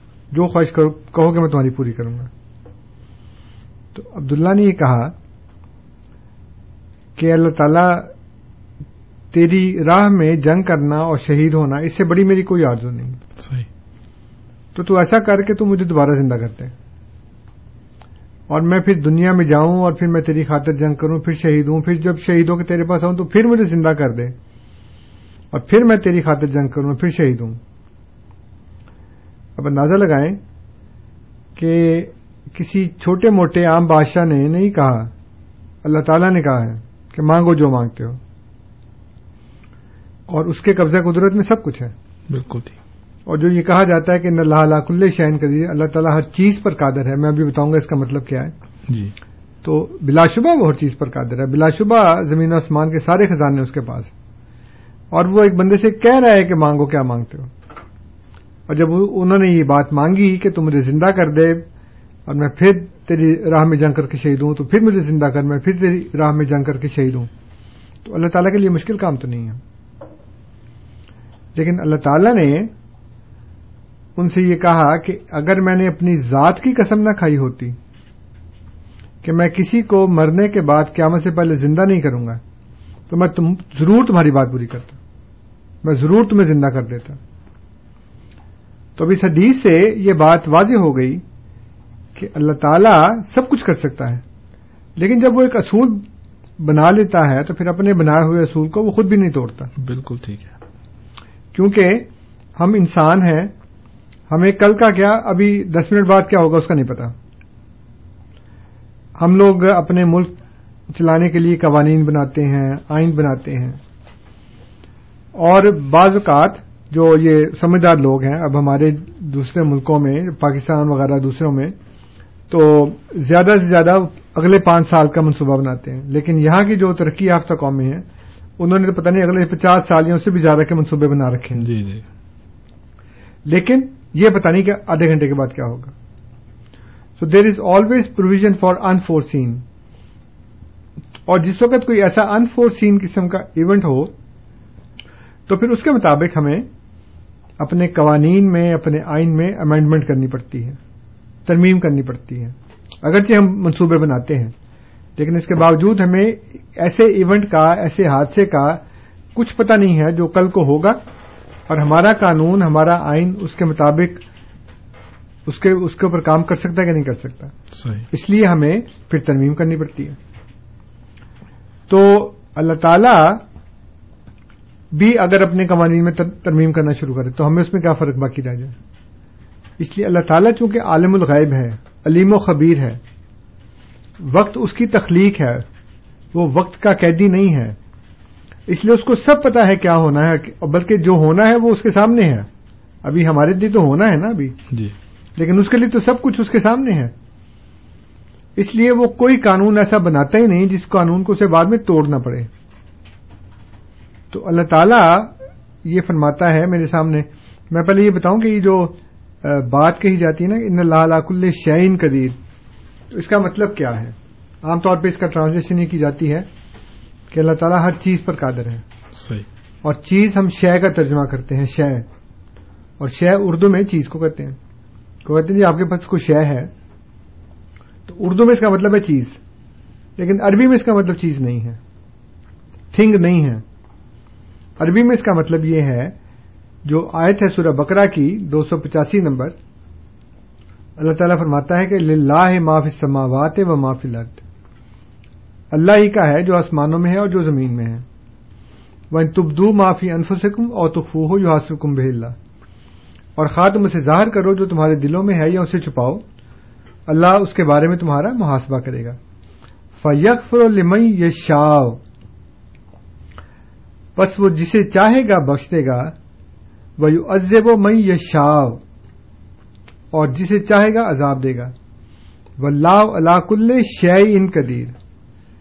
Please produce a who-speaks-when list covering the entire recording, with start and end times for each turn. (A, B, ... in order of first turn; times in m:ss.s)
0:00.3-0:02.3 A
0:03.9-0:05.1 A
0:07.2-0:08.1 A
0:09.3-0:13.2 A
0:13.4-0:13.7 B
0:14.7-0:16.7 A
0:18.5-0:24.4 A
0:25.5-0:27.6 A
0:29.6-0:30.4 A
0:31.6-0:35.1 A
0:35.8-0:38.2 A
0:40.3-0:41.9 A
0:42.3-0:42.8 B
0:43.3-0:48.5 A
0:48.9-0:49.1 B
0:49.6-0:54.1 A
0:55.1-0:57.5 A
0:58.7-1:01.6 A
1:02.2-1:07.3 A
1:08.0-1:09.6 A
1:11.5-1:12.7 A
1:14.2-1:17.8 A
1:19.2-1:22.4 A
1:23.1-1:25.0 A
1:25.8-1:27.2 A
1:29.0-1:31.2 A
1:32.1-1:34.2 A
1:35.0-1:36.0 A
1:36.6-1:39.7 A
1:39.8-1:40.5 B
1:41.5-1:43.5 A
1:44.3-1:47.1 A
1:49.2-1:50.4 A
1:50.9-1:53.8 A
1:55.4-2:01.8 A
2:02.5-2:08.0 A
2:08.6-2:11.7 A
2:11.6-2:12.0 B
2:13.4-2:15.9 A
2:17.2-2:19.6 A
2:21.3-2:24.1 A
2:25.5-2:26.7 A
2:27.6-2:30.8 A
2:31.4-2:34.5 A
2:35.2-2:38.8 A
2:39.3-2:41.0 A
2:41.7-2:44.2 A
2:45.4-2:47.5 A
2:47.7-2:48.0 B
2:48.1-2:50.2 A
2:51.9-2:53.4 A
2:54.9-2:58.7 A
2:59.8-3:03.0 A
3:04.2-3:05.6 A
3:06.3-3:07.8 A
3:08.7-3:12.5 A
3:13.0-3:14.6 A
3:15.4-3:17.1 A
3:18.6-3:22.5 A
3:24.3-3:32.4 A
3:33.1-3:36.5 A
3:37.3-3:38.8 A
3:39.2-3:39.4 B
3:39.8-3:42.1 A
3:43.0-3:44.6 A
3:45.2-3:46.7 A
3:48.1-3:49.4 A
3:50.2-3:51.8 A
3:52.9-3:53.6 A
3:54.8-3:56.1 A
3:56.8-3:59.6 A
4:01.0-4:04.4 A
4:05.7-4:08.0 A
4:09.1-4:12.4 A
4:13.4-4:16.2 A
4:17.1-4:19.2 A
4:20.0-4:22.0 A
4:24.2-4:26.1 A
4:27.0-4:28.8 A
4:30.1-4:31.7 A
4:32.6-4:35.0 A